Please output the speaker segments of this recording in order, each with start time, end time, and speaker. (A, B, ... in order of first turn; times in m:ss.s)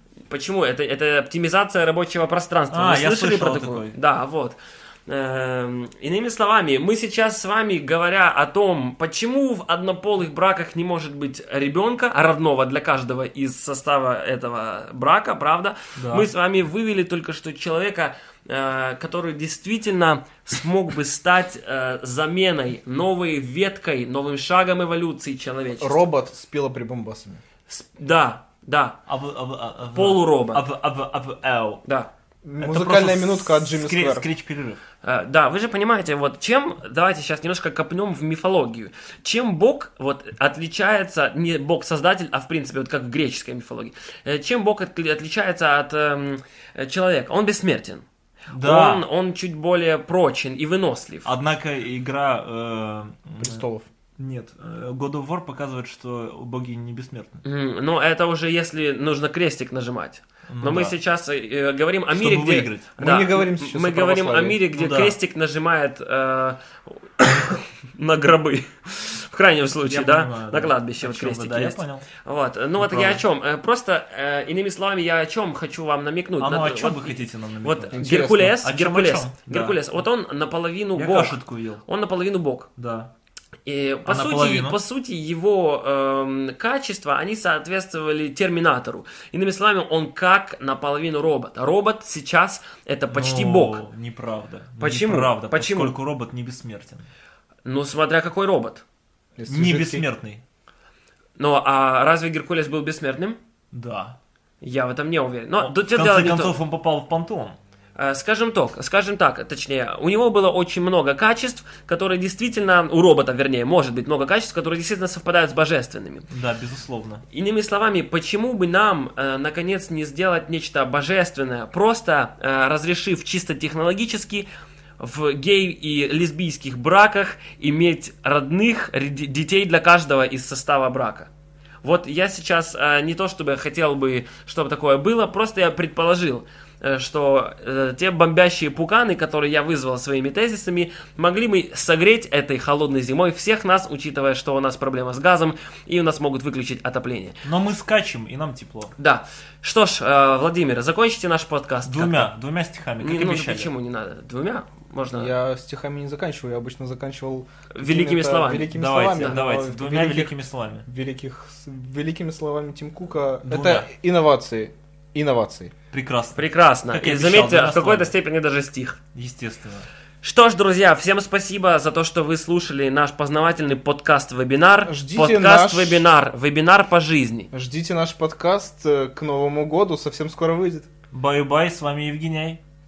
0:00.3-0:26.1 A
0:02.7-0:04.0 B
0:16.0-0:16.3 B
0:25.8-0:27.4 C
0:27.7-0:29.0 A
0:29.1-0:31.8 B
0:29.9-0:30.6 A
0:32.4-0:34.3 C
0:32.6-0:34.8 B
0:35.0-0:48.0 A
0:48.5-0:49.0 B
0:48.6-0:51.3 A
0:51.2-0:53.6 B
0:53.4-0:53.9 C
0:54.2-0:57.4 B
0:57.4-1:22.7 A
1:00.5-1:01.0 B
1:02.1-1:03.0 B
1:03.0-1:04.6 C
1:04.7-1:05.2 B
1:09.8-1:12.1 B
1:12.8-1:13.2 B
1:16.4-1:19.8 B
1:17.9-1:18.5 C
1:21.0-1:21.8 B
1:22.8-1:23.1 B
1:23.7-1:33.8 A
1:24.1-1:24.8 B
1:33.1-1:37.1 B
1:34.8-1:36.0 A
1:37.6-1:38.8 A
1:39.4-1:40.0 C
1:39.5-1:40.4 B
1:41.4-1:43.4 A
1:43.7-1:44.2 B
1:44.6-1:46.6 A
1:45.6-1:47.6 B
1:48.0-1:56.3 A
1:56.3-1:57.2 B
1:57.3-2:04.5 A
2:05.0-2:11.3 A
2:11.8-2:27.4 A
2:27.4-2:28.9 B
2:29.0-2:32.3 A
2:31.8-2:33.7 B
2:33.0-2:35.3 A
2:35.1-2:45.7 C
2:37.8-2:39.4 A
2:38.7-2:40.9 B
2:43.4-2:43.9 B
2:45.9-2:48.1 B
2:46.4-2:49.0 A
2:49.1-2:49.9 B
2:50.2-2:57.5 A
2:54.8-2:56.1 C
2:57.5-3:00.9 C
3:01.1-3:02.6 B